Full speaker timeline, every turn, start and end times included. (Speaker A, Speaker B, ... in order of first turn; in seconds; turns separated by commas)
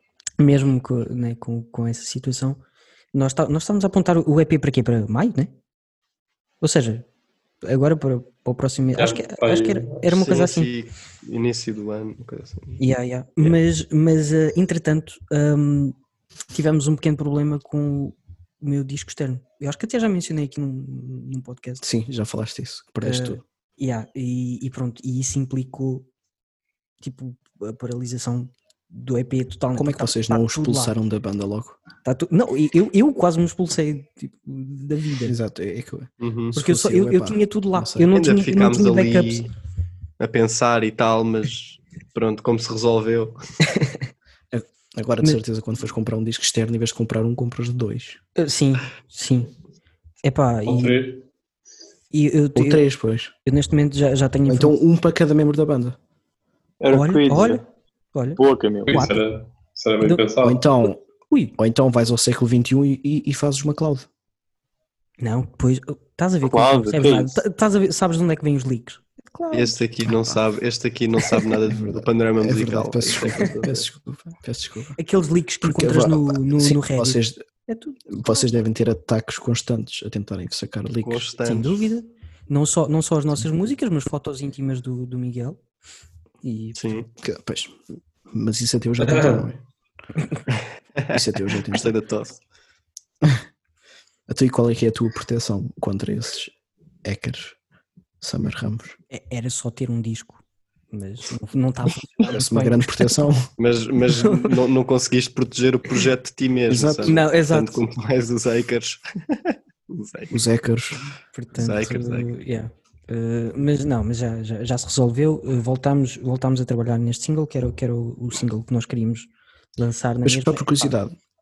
Speaker A: 0.4-2.6, Speaker A: 3.1-5.5, Speaker A: 6.6-7.0, Speaker A: 7.6-10.7, Speaker B: 8.9-10.0, Speaker C: 10.1-12.8, Speaker A: 12.8-15.9, Speaker A: 16.5-21.8, Speaker D: 21.8-23.4, Speaker A: 23.0-26.1, Speaker A: 27.0-30.9, Speaker D: 29.7-31.8, Speaker A: 32.0-35.3, Speaker D: 35.2-38.1, Speaker C: 36.2-36.5, Speaker A: 36.5-39.5, Speaker C: 38.1-39.5, Speaker C: 40.2-43.4, Speaker A: 43.7-44.0, Speaker D: 44.5-48.2, Speaker A: 48.4-49.5, Speaker A: 50.2-51.0, Speaker B: 50.6-51.2, Speaker A: 52.1-52.8, Speaker D: 52.5-53.3, Speaker A: 53.4-54.7, Speaker D: 54.5-56.0, Speaker E: 56.8-57.6, Speaker A: 56.9-59.2, Speaker E: 58.4-59.0, Speaker B: 58.9-60.6, Speaker D: 60.4-61.0, Speaker A: 61.3-61.5, Speaker D: 61.6-64.1, Speaker A: 65.2-69.8, Speaker E: 66.4-67.4, Speaker C: 69.5-73.8, Speaker D: 70.0-70.4, Speaker D: 71.6-75.0, Speaker A: 75.0-78.4, Speaker D: 75.6-77.4, Speaker D: 78.1-81.3, Speaker C: 81.0-81.8, Speaker A: 81.4-85.6, Speaker A: 86.4-87.0, Speaker C: 86.8-87.0, Speaker D: 87.2-89.6, Speaker B: 89.0-89.5, Speaker C: 91.0-92.4, Speaker D: 91.1-91.9, Speaker D: 94.3-96.5, Speaker D: 97.0-97.6, Speaker D: 98.2-99.0, Speaker A: 99.1-103.1, Speaker D: 102.3-103.5, Speaker C: 103.6-110.3, Speaker A: 104.1-104.5, Speaker D: 106.7-107.2, Speaker A: 107.0-107.8, Speaker D: 110.3-111.0, Speaker A: 111.3-120.9, Speaker C: 111.5-112.3, Speaker D: 120.2-121.1